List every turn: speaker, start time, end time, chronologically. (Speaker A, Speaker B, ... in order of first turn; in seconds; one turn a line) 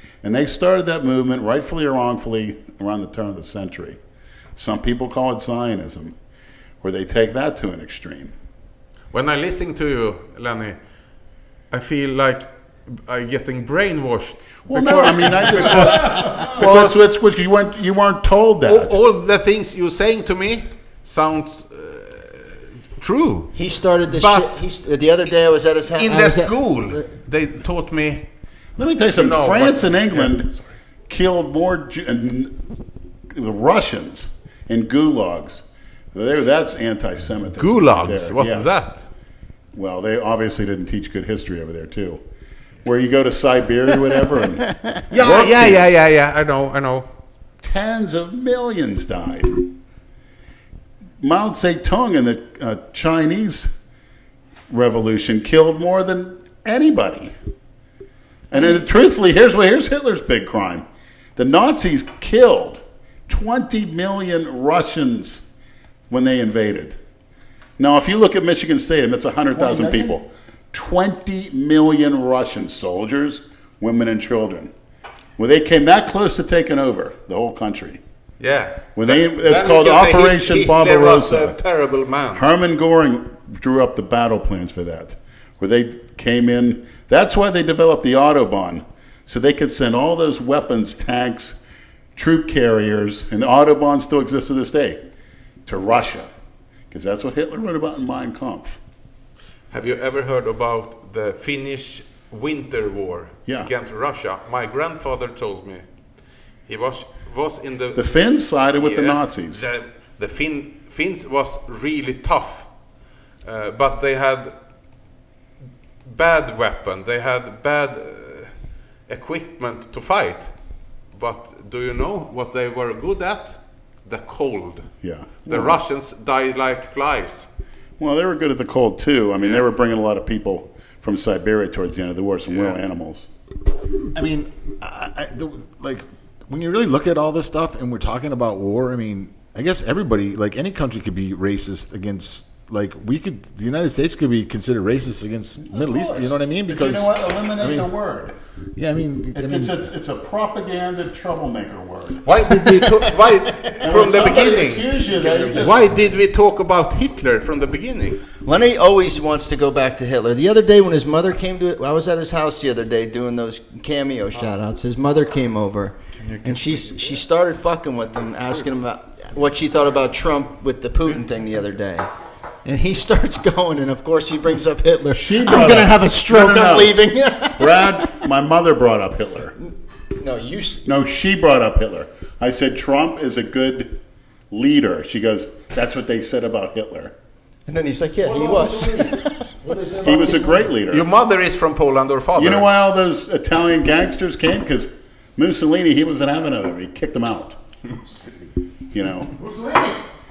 Speaker A: 0.2-4.0
Speaker A: 4.5-6.1
Speaker A: 6.8-8.3
Speaker B: 9.1-10.8
Speaker B: 11.7-17.0
Speaker A: 14.7-19.0
Speaker B: 18.6-23.6
Speaker C: 23.5-27.0
Speaker B: 24.1-24.6
Speaker B: 25.9-28.3
Speaker A: 28.8-30.5
Speaker B: 29.1-30.6
Speaker A: 31.1-32.6
Speaker A: 33.3-38.8
Speaker B: 37.6-39.1
Speaker A: 39.7-42.2
Speaker A: 42.8-45.9
Speaker C: 44.6-45.0
Speaker B: 45.1-47.1
Speaker A: 47.6-49.6
Speaker A: 51.2-53.7
Speaker A: 54.7-57.3
Speaker A: 58.5-60.8
Speaker A: 61.4-65.5
Speaker A: 66.1-67.0
Speaker A: 67.8-74.7
Speaker D: 69.5-70.1
Speaker A: 75.4-78.0
Speaker B: 78.4-82.4
Speaker A: 79.0-81.6
Speaker A: 82.3-91.6
Speaker A: 92.1-95.0
Speaker A: 95.7-96.3
Speaker A: 96.9-98.8
Speaker B: 99.7-105.8
Speaker B: 106.7-108.0
Speaker A: 107.9-109.7
Speaker B: 108.7-112.7
Speaker B: 113.4-114.5
Speaker B: 116.0-118.5
Speaker B: 119.1-120.5
Speaker B: 121.1-124.9
Speaker A: 125.0-125.8
Speaker B: 125.5-127.5
Speaker A: 128.0-133.3
Speaker B: 132.5-132.8
Speaker D: 134.1-147.9
Speaker A: 145.6-148.3
Speaker D: 148.8-149.8
Speaker A: 149.3-152.3
Speaker B: 152.2-158.2
Speaker A: 153.8-156.0
Speaker C: 158.4-172.1
Speaker B: 166.2-166.8
Speaker C: 172.6-178.0
Speaker A: 175.1-177.0
Speaker A: 177.6-179.5
Speaker C: 180.2-180.9
Speaker A: 180.8-184.0
Speaker A: 184.5-187.1
Speaker C: 187.7-189.5
Speaker D: 188.2-190.7
Speaker A: 190.0-191.1
Speaker B: 190.9-192.7
Speaker A: 192.3-197.6
Speaker D: 198.1-198.4
Speaker A: 198.9-199.3
Speaker D: 199.3-200.0